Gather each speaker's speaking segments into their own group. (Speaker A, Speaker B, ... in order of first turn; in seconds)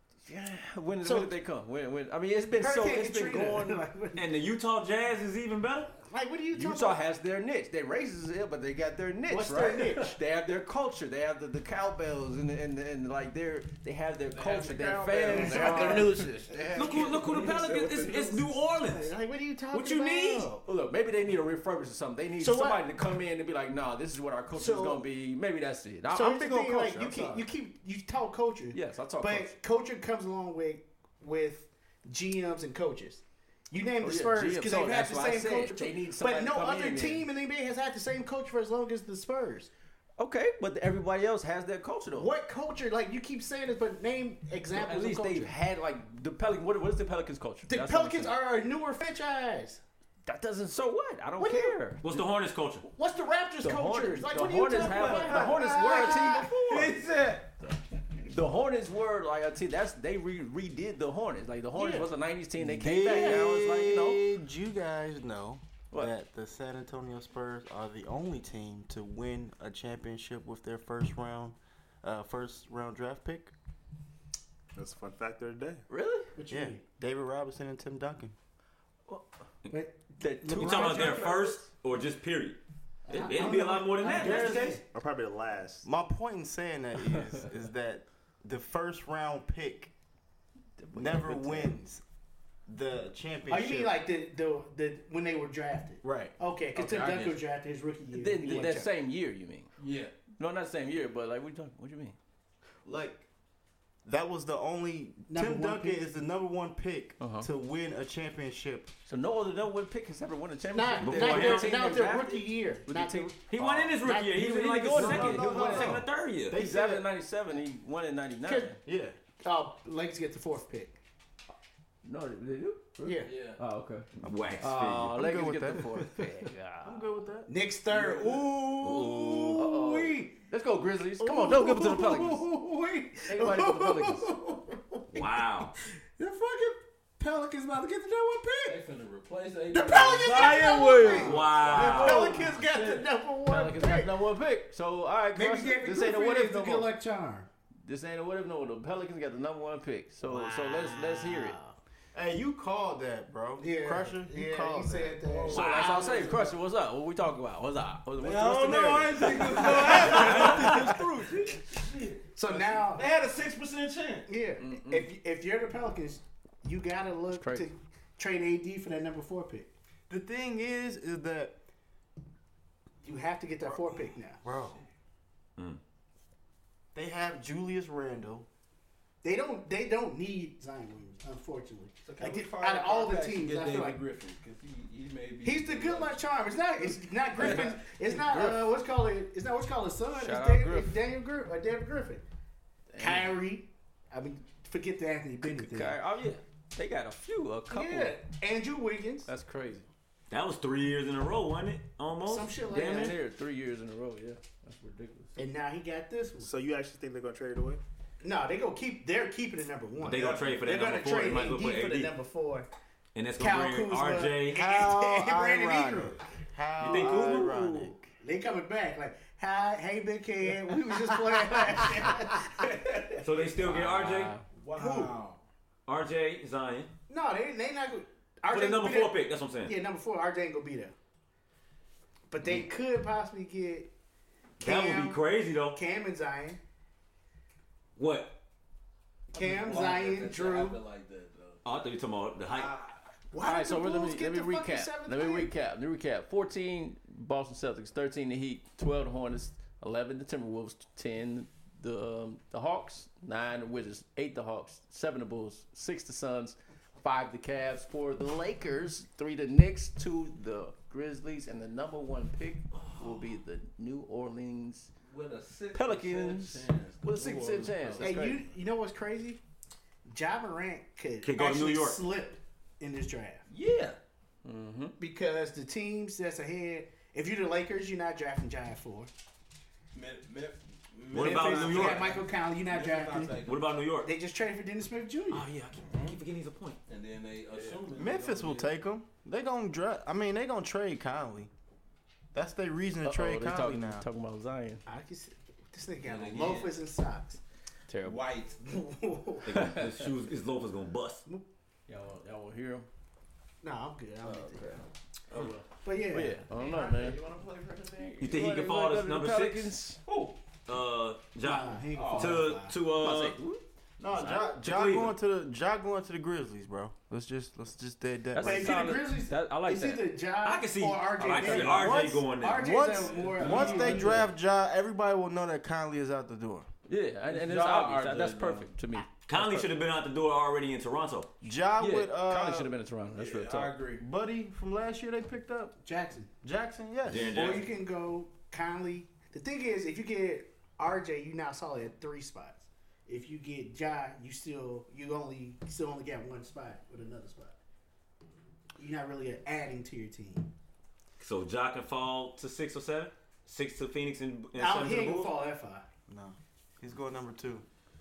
Speaker A: 0.2-3.8, 6.5-16.2, 20.6-27.5, 28.7-29.5, 34.0-37.2, 40.2-42.3, 44.8-48.3, 50.2-52.2, 53.6-56.9, 58.2-64.2, 75.9-76.3, 80.2-81.4, 90.8-91.8, 98.1-99.7, 100.4-102.2, 107.2-107.5, 109.1-113.3, 114.6-118.8, 122.0-124.1, 124.6-127.1, 129.5-132.5, 133.3-134.4, 143.5-146.9, 147.8-151.6, 155.5-161.5, 164.6-165.1, 167.4-167.7, 187.3-188.7, 190.1-191.0, 192.9-193.4, 195.4-198.2, 199.3-199.9, 202.7-205.4, 223.6-224.4, 243.4-264.9, 265.7-268.4, 274.4-275.0, 293.0-294.9, 297.9-298.2, 301.9-302.9, 304.2-307.2, 308.2-310.0, 313.0-313.6, 318.3-320.1, 321.2-322.0, 326.9-329.7, 331.8-333.7
Speaker B: 1.0-1.4, 2.6-4.3, 6.0-7.0, 9.3-10.2, 15.3-20.6, 22.4-22.9, 24.5-25.0, 26.1-39.7, 42.1-45.5, 47.6-49.8, 51.4-51.8, 52.9-56.5, 63.0-63.4, 76.3-76.8, 79.7-81.6, 83.1-84.8, 93.5-98.9, 105.3-106.1, 110.7-116.1, 118.4-118.7, 119.4-121.0, 123.0-123.3, 127.5-130.3, 131.2-138.8, 139.7-144.2, 145.3-147.5, 150.2-151.8, 153.6-156.6, 159.5-160.8, 162.3-163.1, 164.2-169.7, 173.0-174.4, 179.2-184.0, 185.4-192.2, 193.0-196.0, 197.7-199.3, 202.2-203.2, 205.4-206.5, 208.2-212.7, 213.4-216.2, 216.8-222.7, 224.8-225.1, 227.1-230.9, 232.3-233.9, 234.6-235.2, 235.7-236.6, 239.3-240.8, 243.3-245.5, 268.0-269.4, 270.1-273.4, 275.0-279.1, 281.2-283.4, 284.0-285.5, 294.9-297.4, 298.6-299.7, 303.6-304.8, 305.8-306.4, 311.4-312.8, 318.4-324.3, 335.8-336.3, 337.3-347.6, 348.8-350.5, 354.6-355.9
Speaker C: 4.1-5.9, 16.7-19.1, 19.7-20.5, 52.0-52.9, 80.6-84.7, 111.0-111.8, 113.5-116.6, 124.2-125.2, 128.8-129.6, 135.1-135.7, 141.1-142.3, 155.5-155.9, 200.3-203.1, 210.0-212.1, 213.1-214.6, 216.8-217.7, 223.2-224.3, 225.9-226.9, 228.5-229.8, 234.6-235.8, 238.0-238.4, 241.6-242.7, 271.2-272.0, 281.1-282.2, 283.4-284.1, 285.3-286.8, 299.4-301.2, 308.2-309.7, 310.7-313.4, 314.1-315.1, 320.4-323.1, 329.2-331.3, 337.1-337.6, 351.2-355.3
Speaker D: 14.3-18.2, 54.7-57.5, 84.0-84.8, 96.8-97.4, 99.8-100.1, 123.2-123.6, 127.9-128.4, 138.7-143.1, 155.2-156.5, 158.2-164.3, 174.5-174.9, 182.0-186.2, 186.8-187.8, 210.2-210.5, 222.7-223.6, 224.5-225.4, 239.3-241.6, 242.5-243.0, 265.0-268.2, 273.5-274.0, 279.9-283.6, 285.8-286.2, 286.9-288.7, 296.0-296.8, 298.0-298.6, 306.5-308.4, 309.3-310.4, 311.9-312.4, 322.6-324.3, 327.3-328.7, 333.1-334.0
Speaker E: 61.8-73.5, 76.5-78.3, 85.8-89.9, 90.9-92.0, 92.7-94.0, 96.0-96.3, 102.8-103.2, 104.0-108.9, 114.9-117.0, 118.8-119.2, 125.1-126.3, 126.8-127.5, 152.1-155.2, 170.1-171.6, 173.6-174.8, 176.9-178.5, 214.5-218.1, 287.7-291.5, 292.3-294.1, 314.0-319.0, 322.6-326.7, 331.4-332.7, 334.0-335.8, 336.4-337.6, 356.1-357.6
Speaker F: 74.8-75.8, 84.1-85.9, 206.4-207.8